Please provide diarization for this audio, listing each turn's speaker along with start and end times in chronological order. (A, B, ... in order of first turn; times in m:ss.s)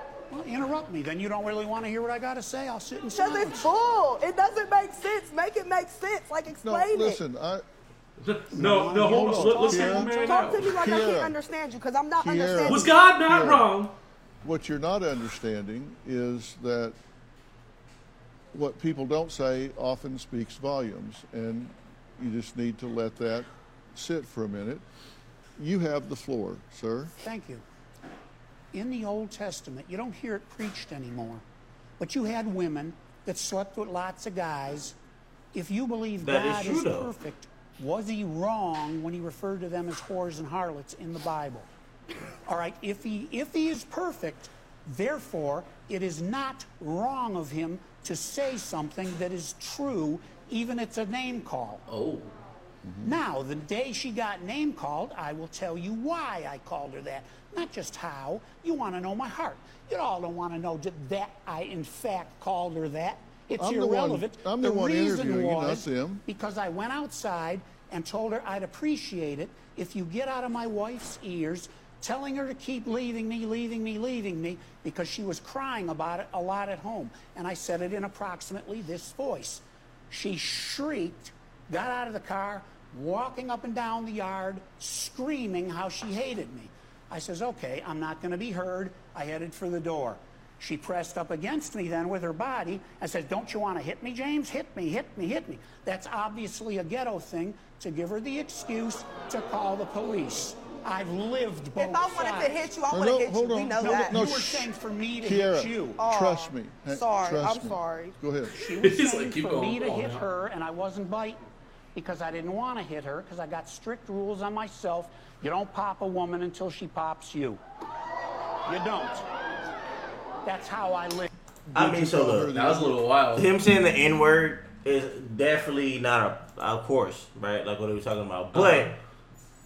0:00.3-0:03.7 A
0:03.1-0:07.2 B
0:06.6-0:07.6 C
0:08.2-0:10.7 D
0:08.5-0:09.5 A
0:08.9-0:11.4 C
0:09.5-0:12.9 B
0:12.2-0:13.7 C
0:12.7-0:13.9 D
0:14.4-0:17.0 C
0:18.5-0:24.8 C
0:25.6-0:27.1 C
0:27.2-0:27.6 A
0:28.7-0:31.4 A
0:32.0-0:34.9 A
0:35.5-0:41.7 A
0:36.2-0:37.1 E
0:42.4-0:51.8 A
0:51.9-0:52.3 D
0:52.8-0:53.2 C
0:53.0-1:42.6 A
1:03.6-1:06.2 C
1:41.8-1:44.2 B
1:42.9-1:48.6 C
1:43.8-1:46.0 A
1:45.9-1:48.1 B
1:48.6-1:51.4 A
1:48.8-1:50.3 D
1:51.9-1:57.6 A
1:58.6-1:59.2 A
2:00.4-2:01.3 A
2:01.7-2:03.0 C
2:01.7-2:02.5 E
2:02.5-2:03.5 D
2:03.3-2:08.9 E
2:08.5-2:08.9 D